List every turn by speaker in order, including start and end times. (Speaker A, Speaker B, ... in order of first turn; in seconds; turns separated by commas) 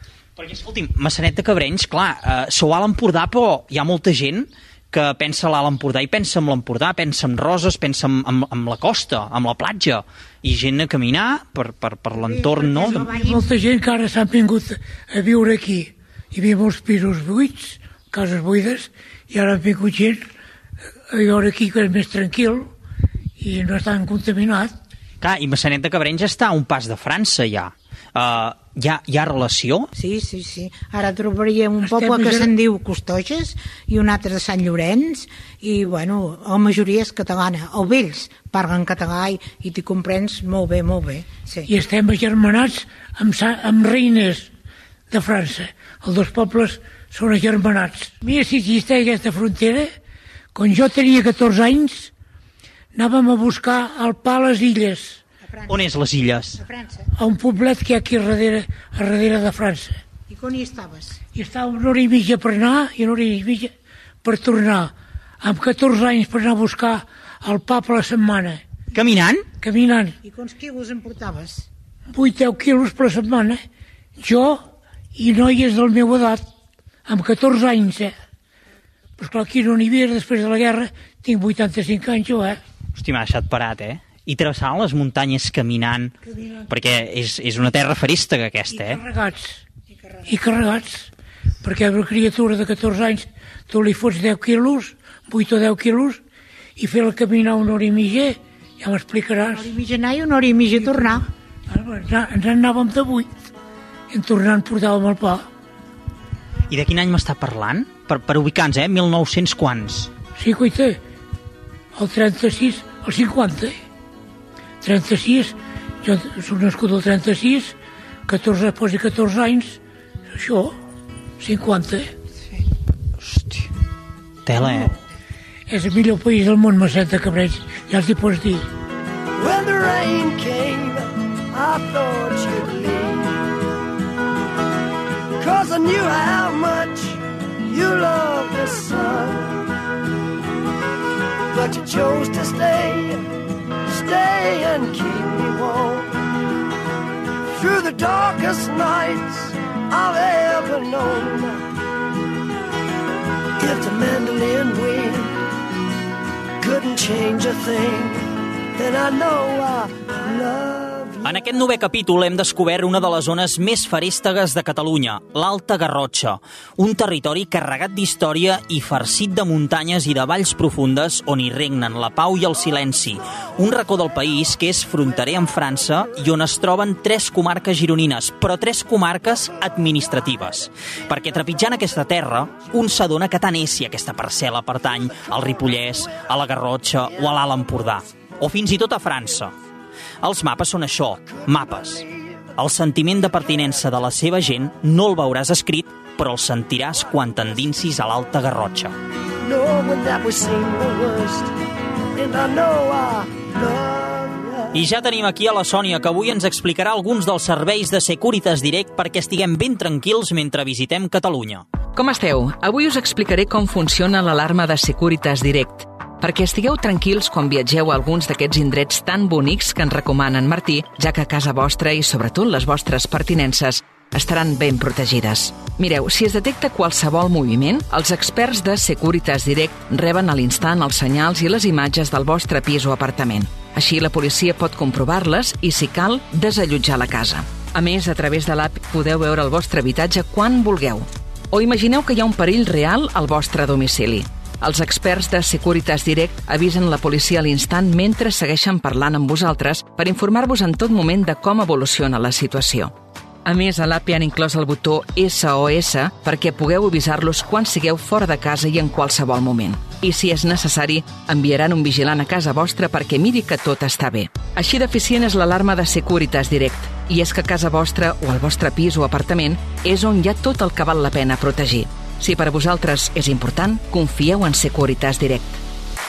Speaker A: 0.4-13.0, Speaker B: 12.1-13.5, Speaker C: 12.8-20.2, Speaker C: 21.1-22.7, Speaker C: 23.4-24.7, Speaker A: 25.2-29.9, Speaker B: 29.9-41.7, Speaker C: 31.8-32.5, Speaker C: 41.7-44.5, Speaker C: 45.1-49.9, Speaker C: 50.5-52.1, Speaker C: 52.9-55.2, Speaker B: 55.4-55.8, Speaker A: 55.7-56.6, Speaker B: 56.5-57.0, Speaker C: 57.1-60.0, Speaker B: 60.3-61.2, Speaker C: 61.3-63.7, Speaker C: 64.2-68.6, Speaker A: 68.9-69.4, Speaker C: 69.6-70.2, Speaker B: 70.2-71.7, Speaker C: 72.1-73.6, Speaker C: 74.2-76.4, Speaker C: 77.0-78.1, Speaker C: 79.2-82.6, Speaker A: 83.0-86.1, Speaker A: 86.7-89.0, Speaker C: 88.7-89.6, Speaker C: 90.2-91.1, Speaker C: 91.6-96.2, Speaker C: 96.8-99.7, Speaker B: 99.5-101.3, Speaker C: 100.7-103.3, Speaker C: 104.1-105.5, Speaker A: 106.7-110.1, Speaker C: 110.3-111.0, Speaker C: 111.9-113.8, Speaker C: 114.8-117.7, Speaker C: 118.3-119.8, Speaker C: 120.3-120.7, Speaker C: 121.4-122.1, Speaker A: 123.2-123.7, Speaker A: 124.4-124.9, Speaker C: 125.7-128.7, Speaker D: 129.3-133.4, Speaker D: 135.4-139.6, Speaker D: 141.5-143.2, Speaker D: 143.9-146.2, Speaker D: 147.5-151.6, Speaker D: 153.6-155.3, Speaker D: 156.6-161.4, Speaker A: 161.2-189.5, Speaker A: 190.2-198.9, Speaker D: 199.4-201.5, Speaker D: 202.1-204.7, Speaker A: 204.7-211.7, Speaker E: 211.9-275.6